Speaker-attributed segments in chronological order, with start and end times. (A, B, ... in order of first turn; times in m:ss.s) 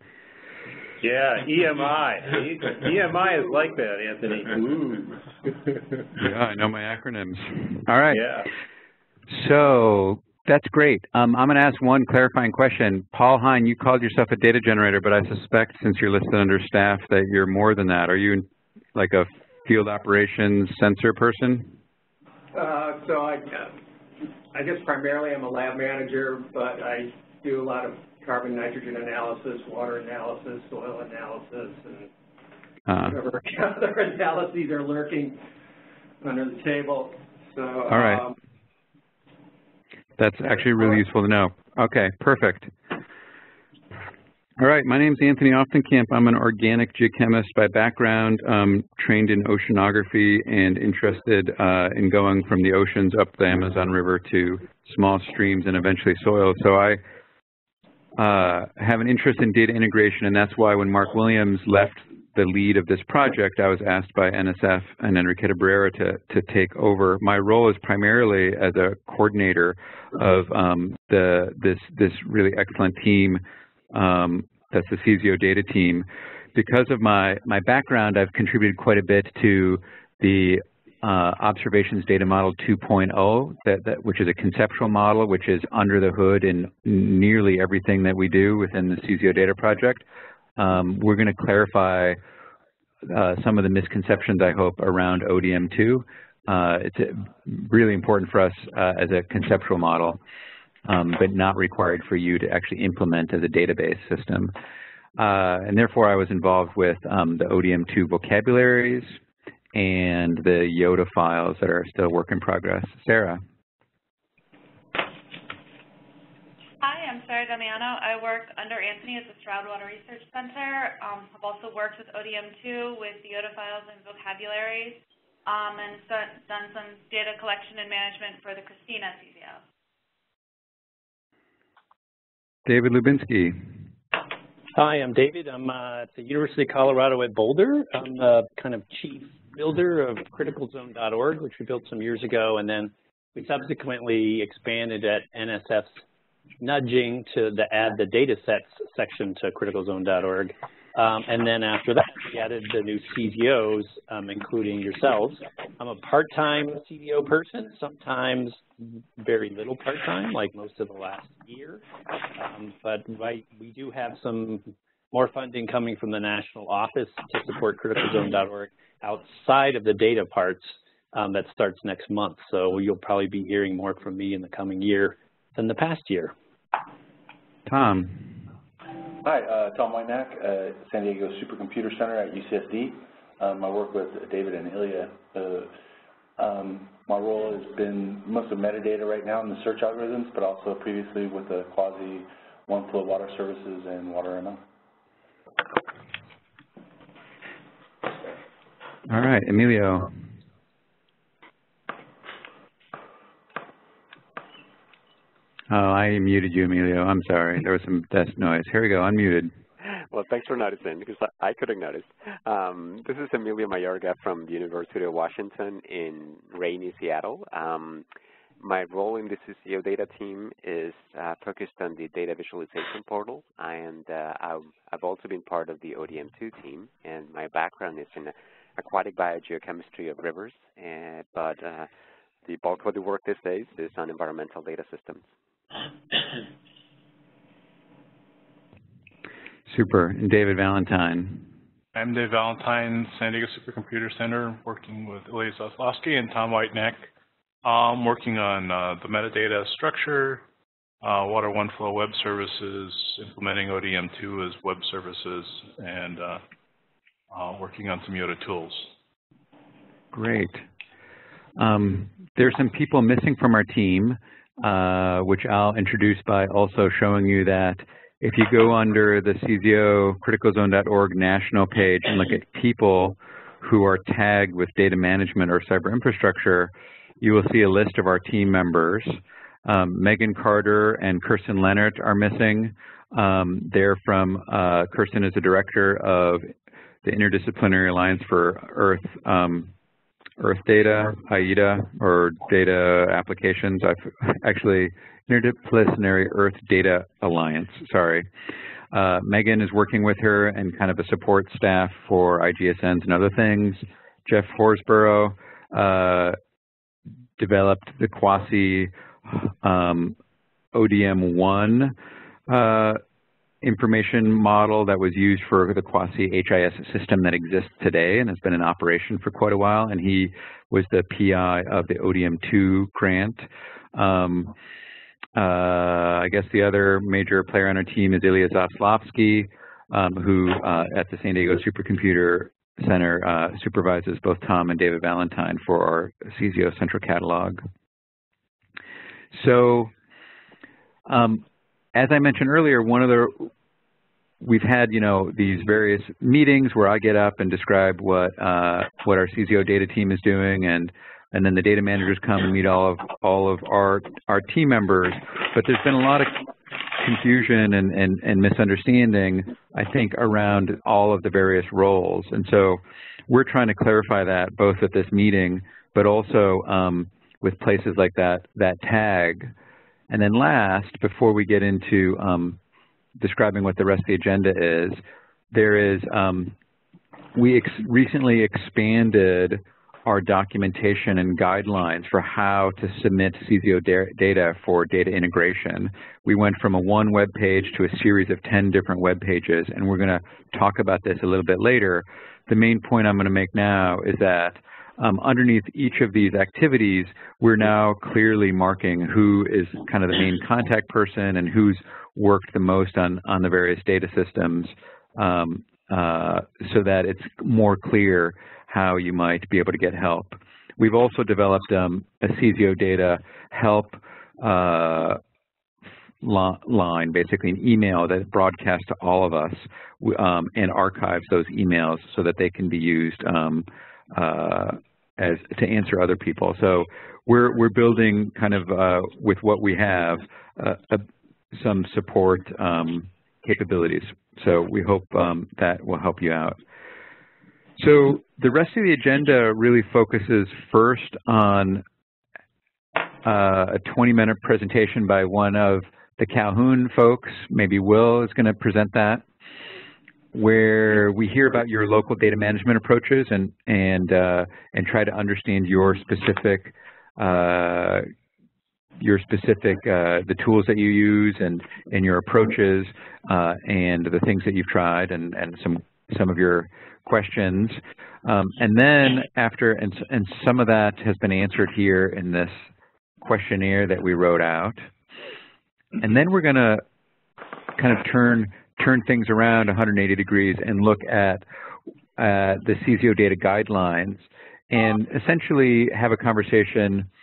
0:01.0-0:05.8 A
0:06.2-0:08.2 B
0:08.1-0:08.5 A
0:09.3-0:21.8 B
0:22.5-0:23.7 C
0:24.5-0:32.1 C
0:32.9-0:33.2 B
0:33.0-0:35.4 C
0:36.2-0:38.3 C
0:37.9-0:38.2 B
0:40.2-0:42.7 B
0:44.6-0:57.0 B
0:58.2-1:13.4 B
1:13.9-1:30.0 B
1:30.6-1:32.2 B
1:33.0-1:40.2 B
1:40.8-1:44.5 B
1:45.2-1:49.2 B
1:49.7-1:53.4 B
1:56.8-2:09.6 D
2:12.6-2:13.6 B
2:14.7-2:26.0 E
2:26.6-2:41.8 E
2:42.3-2:56.3 E
2:57.7-2:58.3 B
2:59.2-3:05.7 F
3:06.4-3:14.6 F
3:19.1-3:20.1 B
3:25.7-3:29.5 B
3:29.8-3:38.0 G
3:38.6-3:51.9 G
3:52.4-3:55.2 G
3:59.7-4:01.5 B
4:01.9-4:07.1 H
4:07.6-4:10.4 H
4:11.0-4:16.4 H
4:17.3-4:18.9 H
4:20.1-4:20.6 B
4:21.6-4:46.5 B
4:47.0-4:49.7 B
4:50.4-4:58.3 B
4:58.9-5:06.4 B
5:07.4-5:10.2 B
5:10.7-5:11.9 B
5:12.5-5:13.0 B
5:13.6-5:24.5 B
5:25.4-5:37.6 B
5:39.3-5:39.9 B
5:41.1-5:41.4 B
5:41.9-5:43.5 B
5:44.4-6:09.5 B
6:10.1-6:12.6 B
6:13.2-6:15.0 B
6:15.5-6:16.5 B
6:17.3-6:55.2 B
6:56.2-7:16.6 B
7:17.8-7:21.8 B
7:23.2-7:29.2 B
7:30.3-7:38.1 B
7:39.0-7:52.6 B
7:53.2-7:54.9 B
7:56.0-7:56.8 B
7:57.8-8:01.4 B
8:02.2-8:07.1 B